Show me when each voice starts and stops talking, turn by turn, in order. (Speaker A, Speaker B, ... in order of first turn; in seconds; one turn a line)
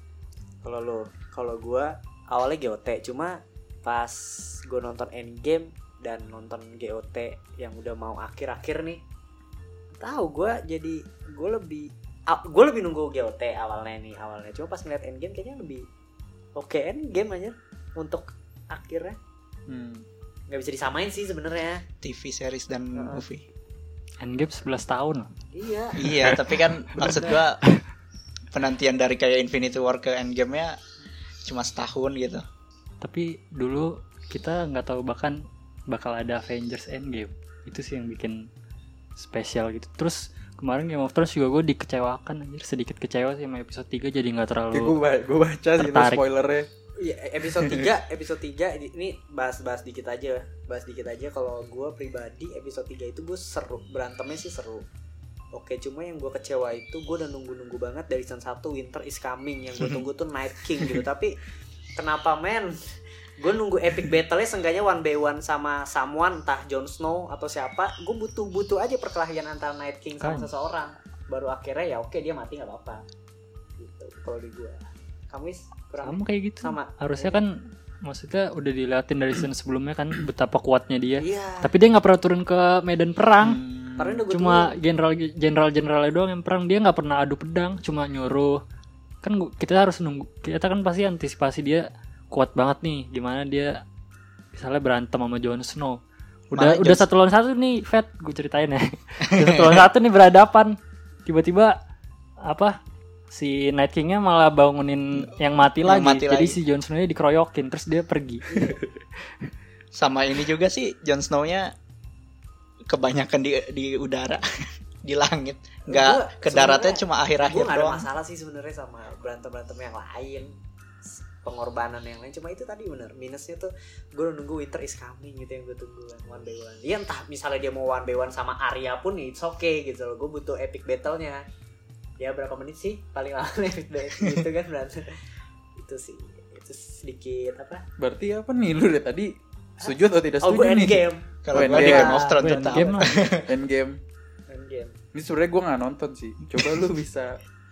Speaker A: 0.6-9.0
Speaker A: 10.0-15.8
Speaker A: 16.6-19.2
Speaker B: 19.7-20.1
Speaker A: 20.5-21.8
Speaker C: 22.0-23.4
Speaker A: 22.9-23.2
Speaker D: 24.2-25.3
Speaker A: 25.5-26.1
Speaker C: 26.0-27.6
Speaker D: 26.1-27.8
Speaker C: 28.5-30.8
Speaker C: 31.4-32.4
Speaker D: 33.0-38.5
Speaker D: 39.1-45.0
Speaker B: 44.7-46.7
Speaker D: 45.8-46.2
Speaker A: 47.0-54.9
Speaker A: 55.5-61.4
Speaker A: 62.0-62.8
Speaker A: 63.4-73.0
Speaker D: 70.2-70.5
Speaker A: 73.8-77.4
Speaker D: 76.0-83.6
Speaker A: 81.2-81.7
Speaker B: 83.4-84.2
Speaker A: 84.0-84.7
Speaker D: 84.3-88.6
Speaker D: 89.2-93.8
Speaker D: 94.5-96.0
Speaker D: 96.5-101.8
Speaker C: 96.5-97.1
Speaker C: 99.3-99.8
Speaker D: 102.4-102.8
Speaker D: 103.3-109.0
Speaker C: 105.8-106.6
Speaker A: 108.5-108.8
Speaker C: 109.9-111.7
Speaker C: 112.9-118.0
Speaker A: 115.8-120.5
Speaker A: 121.0-131.4
Speaker A: 132.2-135.2
Speaker A: 135.8-137.8
Speaker B: 138.0-142.2
Speaker A: 139.8-143.3
Speaker C: 141.4-143.5
Speaker D: 142.2-143.2
Speaker B: 143.5-144.0
Speaker A: 144.5-144.9
Speaker B: 145.1-147.4
Speaker C: 146.5-146.9